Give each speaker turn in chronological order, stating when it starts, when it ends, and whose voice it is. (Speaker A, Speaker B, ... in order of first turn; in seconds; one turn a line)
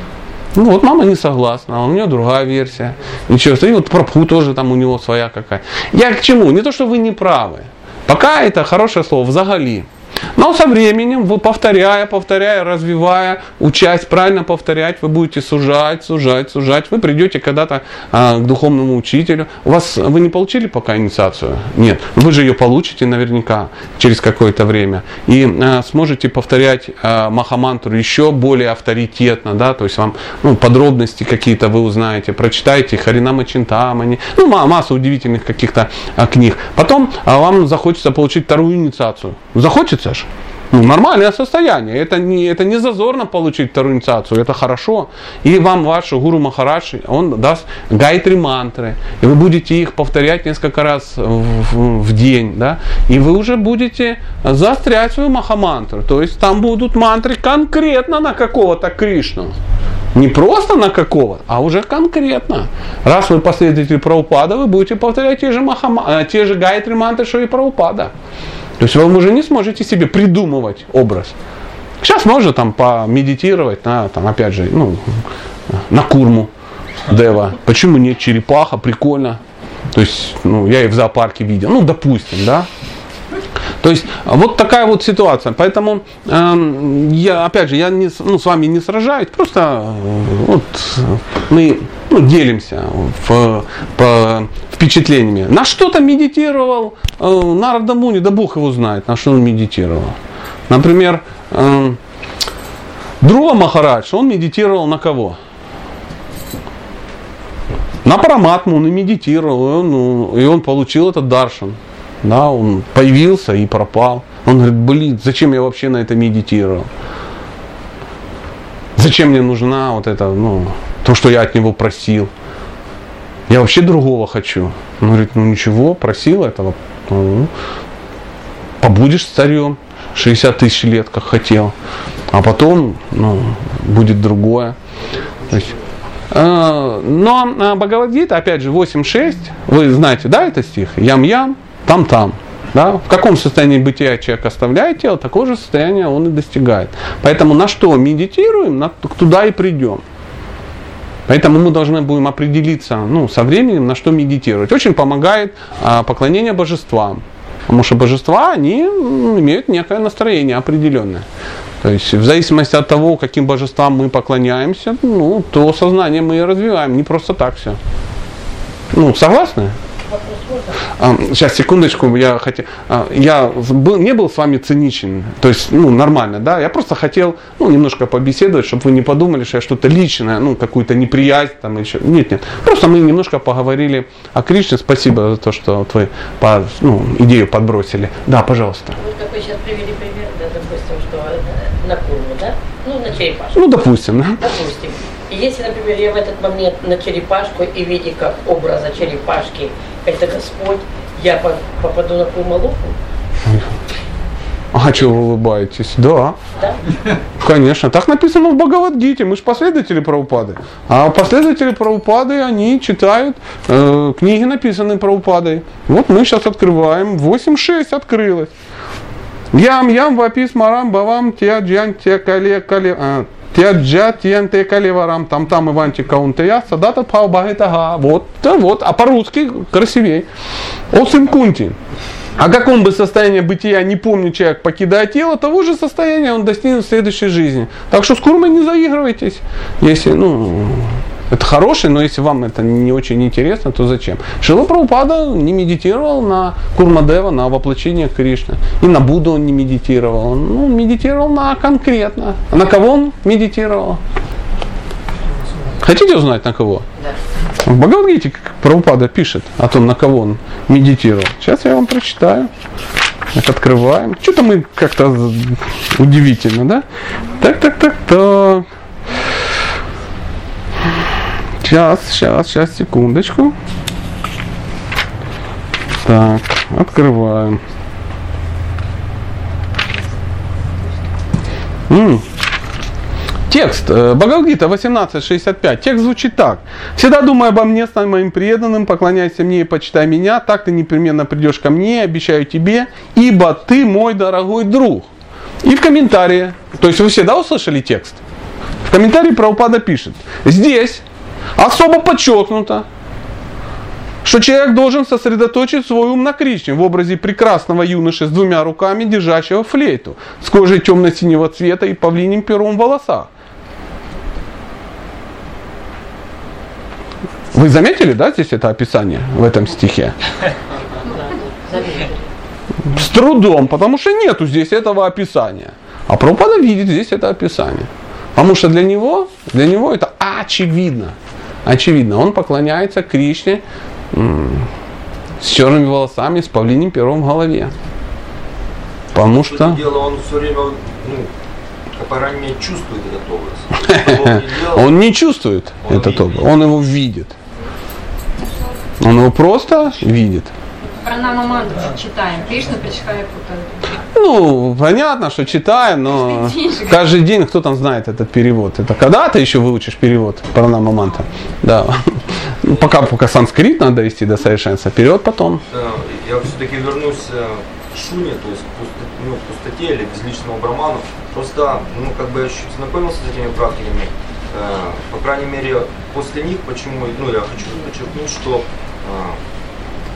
Speaker A: 0.5-59.5
Speaker A: 60.1-68.1
Speaker A: 68.8-71.3
Speaker A: 72.0-75.0
Speaker A: 75.7-76.5
Speaker A: 77.1-79.4
Speaker A: 79.9-82.7
Speaker A: 83.8-100.2
Speaker A: 100.7-102.0
Speaker A: 103.2-105.4
Speaker A: 108.0-116.9
Speaker A: 119.0-122.3
Speaker A: 123.5-127.5
Speaker A: 128.8-131.7
Speaker A: 132.3-134.8
Speaker B: 135.0-135.9
Speaker A: 136.3-150.0
Speaker A: 151.3-161.2
Speaker A: 161.8-167.8
Speaker A: 168.9-169.8
Speaker C: 170.1-170.8
Speaker A: 171.0-189.0
Speaker C: 189.0-193.6
Speaker A: 193.5-194.4
Speaker C: 194.4-202.9
Speaker A: 204.7-206.4
Speaker A: 207.4-218.5
Speaker A: 219.5-230.3
Speaker A: 230.9-231.8
Speaker A: 232.4-254.0
Speaker A: 255.8-256.9
Speaker A: 257.6-262.5
Speaker A: 263.3-266.8
Speaker A: 267.4-268.6
Speaker A: 271.6-273.5
Speaker A: 276.0-277.6
Speaker A: 281.9-282.2
Speaker A: 283.5-295.1
Speaker A: 295.6-298.2
Speaker A: 298.8-301.0
Speaker A: 301.6-302.8
Speaker A: 304.2-313.3
Speaker A: 317.5-320.2
Speaker C: 321.0-322.3
Speaker A: 322.9-333.6
Speaker A: 334.1-334.7
Speaker A: 335.4-337.7
Speaker A: 339.1-339.8
Speaker B: 339.2-341.3
Speaker B: 341.9-344.9
Speaker A: 343.9-347.3
Speaker B: 345.9-346.2
Speaker A: 349.0-350.5
Speaker D: 350.9-353.9
Speaker A: 354.1-365.6
Speaker D: 356.2-357.0
Speaker B: 365.7-379.4